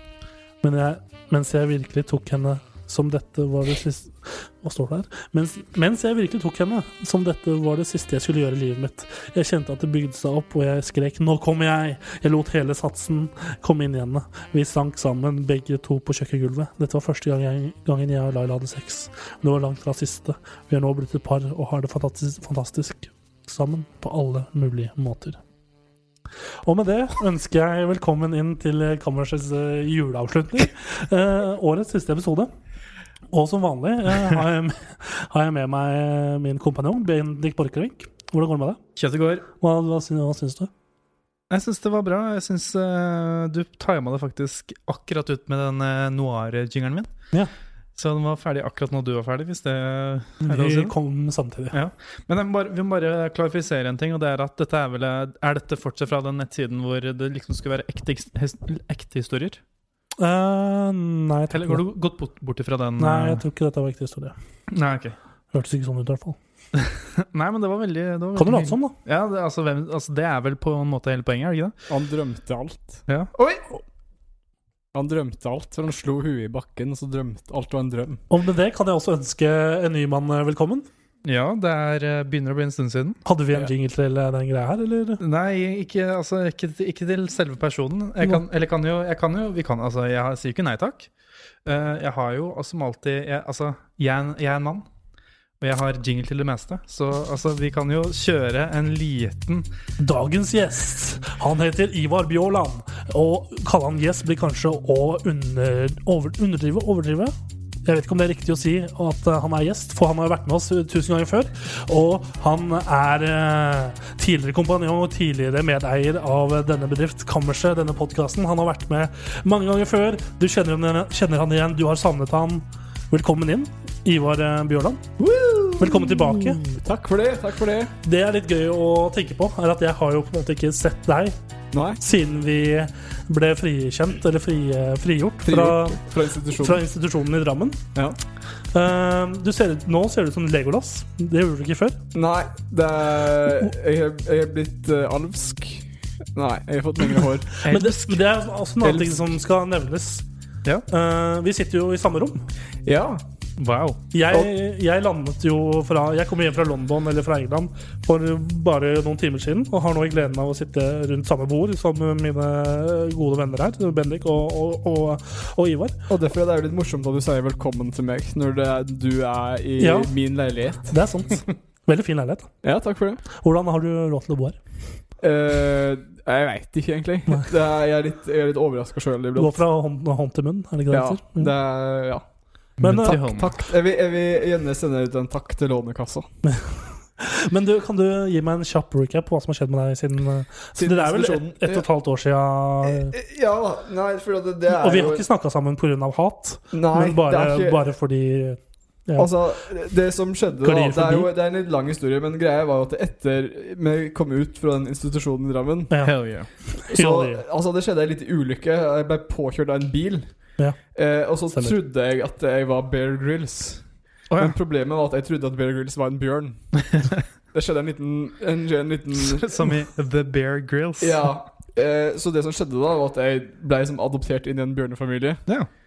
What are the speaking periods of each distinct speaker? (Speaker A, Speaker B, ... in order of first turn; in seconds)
Speaker A: 0.6-25.4, 26.6-32.5, 33.3-38.8, 39.6-40.7, 50.4-51.8, 60.2-61.8, 63.0-64.3, 65.5-66.4, 68.3-68.9, 78.3-80.9, 83.2-85.2, 100.0-107.3, 107.8-125.0, 125.8-126.7, 128.0-131.3, 132.0-137.8, 138.7-142.0, 147.7-150.2, 150.9-152.4, 154.1-166.0, 169.8-170.1, 170.9-172.5, 173.4-174.6, 179.3-181.5, 182.8-183.2, 186.4-193.2, 194.7-199.3, 200.6-201.3, 205.9-206.2, 206.7-207.4, 211.5-211.8
Speaker B: 39.0-39.5, 41.5-47.1, 48.0-50.9, 51.7-59.6, 61.5-63.4, 64.7-65.2, 66.8-71.8, 73.1-73.6, 81.2-83.2, 85.2-91.1, 91.7-94.8, 95.6-99.7, 153.6-154.0, 182.8-183.5, 206.0-206.5, 214.3-214.6, 219.2-221.2
Speaker C: 71.9-73.0, 74.9-78.2, 125.2-127.9, 131.7-132.0, 135.4-136.8, 142.1-148.2, 148.8-149.1, 152.8-153.2, 166.1-171.0, 172.6-173.2, 175.2-179.6, 180.9-182.2, 182.9-186.3, 190.8-191.9, 192.8-195.3, 196.7-197.8, 199.2-206.1, 206.9-210.3, 210.9-213.8, 214.4-216.7, 217.5-219.7, 221.0-225.4